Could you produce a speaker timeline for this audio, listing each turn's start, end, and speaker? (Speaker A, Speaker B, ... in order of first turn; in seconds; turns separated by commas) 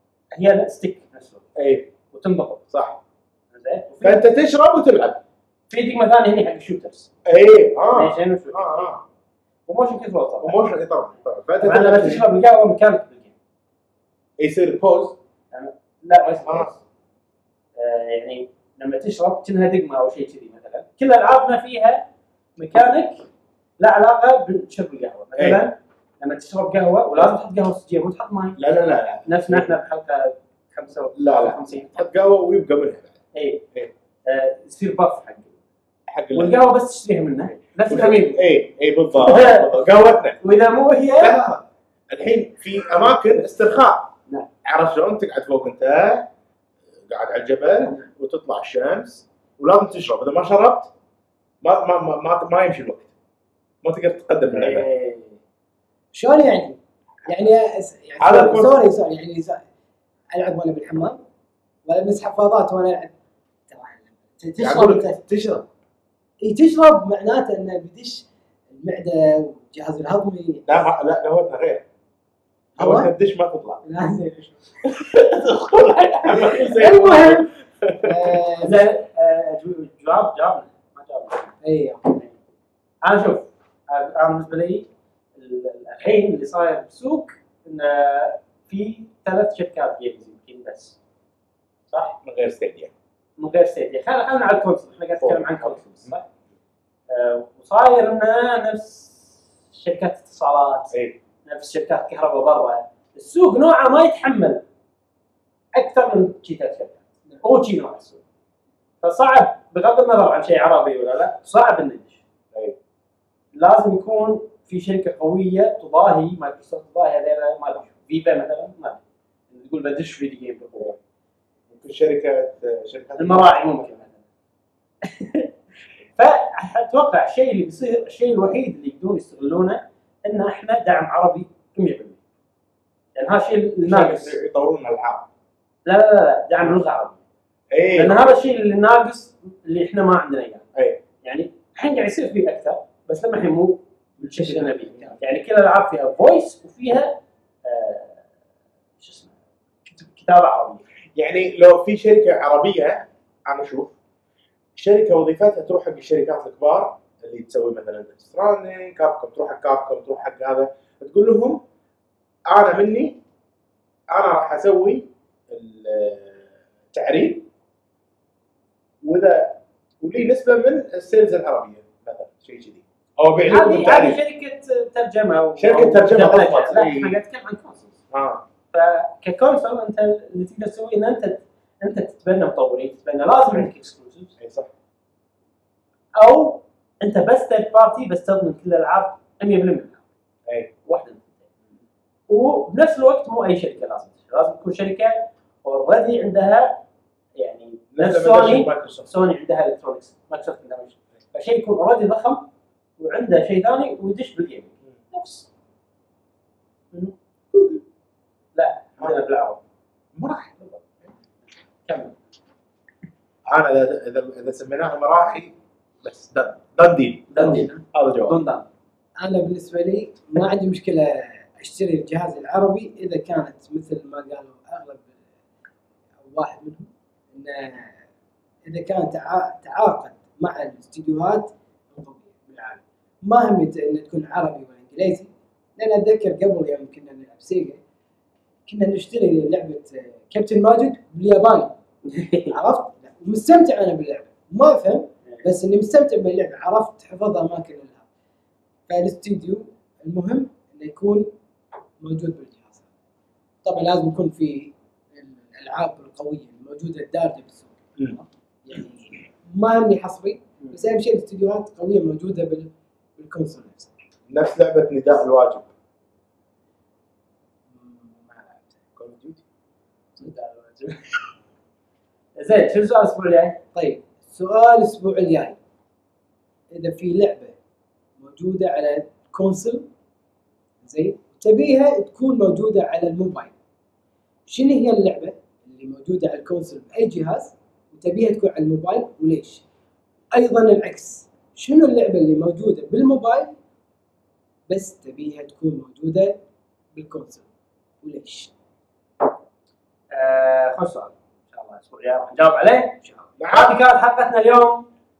Speaker A: 0.3-1.5, Speaker B: 1.6-1.9, Speaker A: 2.1-2.6, Speaker B: 2.7-3.0, Speaker A: 3.5-4.3, Speaker B: 4.0-5.2, Speaker A: 5.7-7.1, Speaker B: 7.2-9.0, Speaker A: 7.9-8.9, Speaker A: 9.7-10.6, Speaker B: 10.4-12.2, Speaker A: 11.6-13.3, Speaker B: 14.4-15.2, Speaker A: 15.5-16.8, Speaker B: 16.4-16.7, Speaker A: 17.8-23.3, Speaker A: 23.8-28.6, Speaker B: 25.4-25.6, Speaker B: 28.6-29.7, Speaker A: 29.2-32.0, Speaker B: 31.1-33.1, Speaker A: 33.3-33.6, Speaker A: 34.2-35.6, Speaker B: 36.1-36.6, Speaker A: 36.3-38.4, Speaker B: 37.9-40.4, Speaker A: 39.2-41.4, Speaker B: 41.2-44.1, Speaker B: 44.6-46.3, Speaker B: 47.1-50.9, Speaker B: 51.6-53.1, Speaker B: 53.8-54.9, Speaker A: 54.5-55.4, Speaker C: 56.1-59.6, Speaker B: 58.2-58.8, Speaker C: 60.3-61.2, Speaker C: 61.9-63.1, Speaker C: 63.7-65.2, Speaker B: 64.6-65.7, Speaker C: 66.4-70.8, Speaker B: 70.7-71.8, Speaker C: 72.8-73.1, Speaker B: 72.8-73.8, Speaker C: 73.8-74.8, Speaker B: 74.8-78.4, Speaker C: 76.5-77.5, Speaker C: 78.0-78.9, Speaker A: 78.6-81.5, Speaker C: 81.6-82.2, Speaker A: 83.0-91.0, Speaker A: 91.9-92.2, Speaker B: 92.2-92.9, Speaker A: 93.4-96.3, Speaker B: 95.2-96.1, Speaker A: 97.1-100.9, Speaker B: 100.9-101.2, Speaker A: 101.4-104.6, Speaker A: 105.7-108.2, Speaker A: 109.0-112.2, Speaker A: 113.5-121.0, Speaker B: 121.7-123.9, Speaker A: 123.2-124.2, Speaker A: 125.0-125.5, Speaker A: 126.2-132.2, Speaker A: 133.1-134.3, Speaker B: 133.8-135.3, Speaker A: 135.8-137.2, Speaker B: 137.7-138.3, Speaker A: 137.9-140.6, Speaker B: 140.7-141.0, Speaker A: 141.2-148.2, Speaker B: 144.2-145.1, Speaker A: 149.0-149.3, Speaker A: 149.8-150.8, Speaker B: 151.1-153.9, Speaker B: 154.7-161.6, Speaker B: 162.5-163.2, Speaker B: 164.1-167.4, Speaker B: 169.0-174.2, Speaker A: 173.4-177.9, Speaker B: 175.6-177.2, Speaker B: 178.1-178.4, Speaker A: 178.7-184.3, Speaker B: 184.4-184.7, Speaker A: 186.2-190.0, Speaker A: 190.8-191.5, Speaker A: 192.3-196.8, Speaker A: 197.4-202.5, Speaker B: 197.9-199.1, Speaker A: 203.0-205.5, Speaker B: 207.5-207.8, Speaker A: 208.5-209.6, Speaker B: 210.1-211.1, Speaker A: 211.8-212.2, Speaker B: 213.5-218.4, Speaker A: 217.3-217.7, Speaker C: 217.4-217.8, Speaker A: 218.2-218.7, Speaker C: 219.2-225.1, Speaker C: 226.2-228.0, Speaker C: 228.7-237.8, Speaker C: 238.7-241.7, Speaker A: 242.1-242.6, Speaker C: 242.5-248.0, Speaker C: 248.9-251.3, Speaker C: 252.0-252.8, Speaker C: 253.6-263.9, Speaker B: 264.3-265.7, Speaker C: 267.7-269.0, Speaker B: 269.0-269.4, Speaker A: 270.2-271.1, Speaker A: 272.4-273.6, Speaker C: 273.7-275.6, Speaker C: 276.7-277.5, Speaker C: 278.2-279.9, Speaker C: 280.8-283.5, Speaker C: 284.5-289.6, Speaker C: 290.3-293.5, Speaker C: 294.7-296.4, Speaker C: 296.9-297.4, Speaker C: 298.0-298.5, Speaker A: 300.1-303.0, Speaker C: 303.0-303.3, Speaker B: 303.4-303.8, Speaker A: 303.5-304.9